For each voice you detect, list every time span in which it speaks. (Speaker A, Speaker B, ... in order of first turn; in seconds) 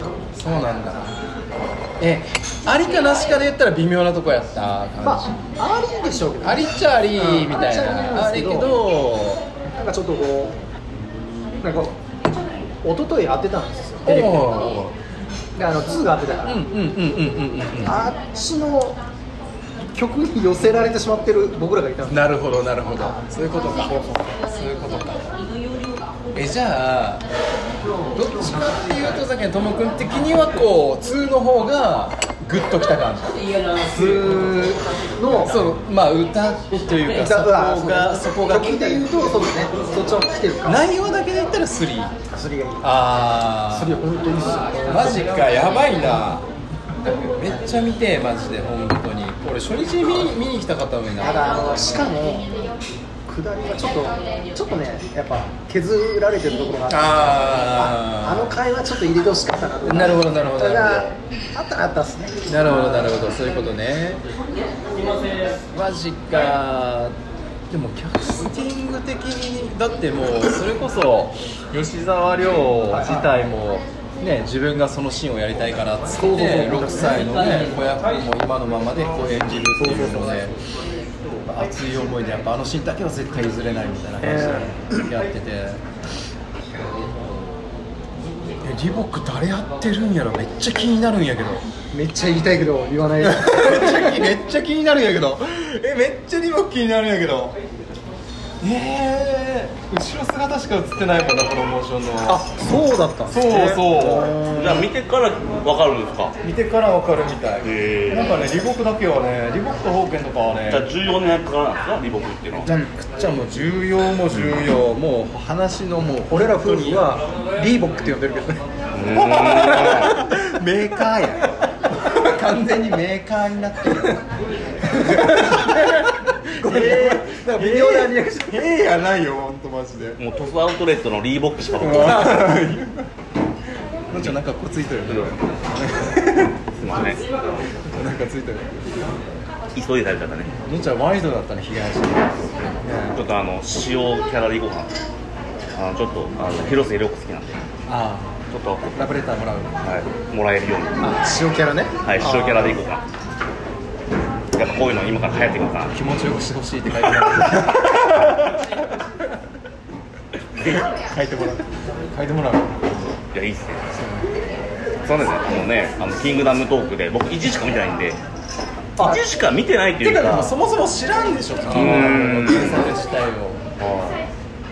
Speaker A: 0.3-1.1, 2.0-5.5, 6.4-9.4, 14.1-14.9, 16.4-18.0, 22.1-25.3, 26.3-27.2, 28.1-34.8, 35.5-39.3, 40.6-42.1, 42.8-44.0, 44.8-46.4, 47.0-51.4, 56.9-58.6, 59.9-61.1, 62.5-64.2, 65.7-67.1, 67.7-80.5, 81.5-85.8, 88.6-91.6, 93.2-97.5, 98.6-102.5, 103.3-104.4, 106.4-110.9, 112.6-117.1, 119.1-124.2, 124.8-130.2, 131.8-133.1, 134.1-137.1, 137.8-138.7, 140.5-143.2, 147.9-148.3, 148.9-149.7, 155.9-158.7, 160.6-162.8, 163.9-164.3, 170.0-173.6
Speaker B: 5.0-8.8, 9.7-10.5, 11.6-11.9, 12.8-14.7, 15.6-16.5, 17.8-19.0, 19.9-22.2, 33.8-34.5, 35.1-35.6, 37.1-40.8, 42.3-43.0, 43.7-45.4, 51.2-52.5, 53.3-63.4, 72.9-73.3, 76.2-77.5, 84.2-84.7, 91.9-94.3, 102.2-104.9, 116.3-118.6, 125.2-126.0, 126.6-128.6, 151.0-152.8
Speaker C: 104.5-106.3, 107.6-108.5, 110.7-112.7, 118.9-120.2, 130.2-132.5, 135.1-135.4, 136.8-137.6, 139.7-140.5, 143.1-144.9, 145.7-147.7, 148.5-149.0, 149.8-151.0, 152.0-153.0, 154.5-156.0, 163.3-163.9, 165.0-168.2, 169.0-170.5, 171.7-172.9, 173.8-174.2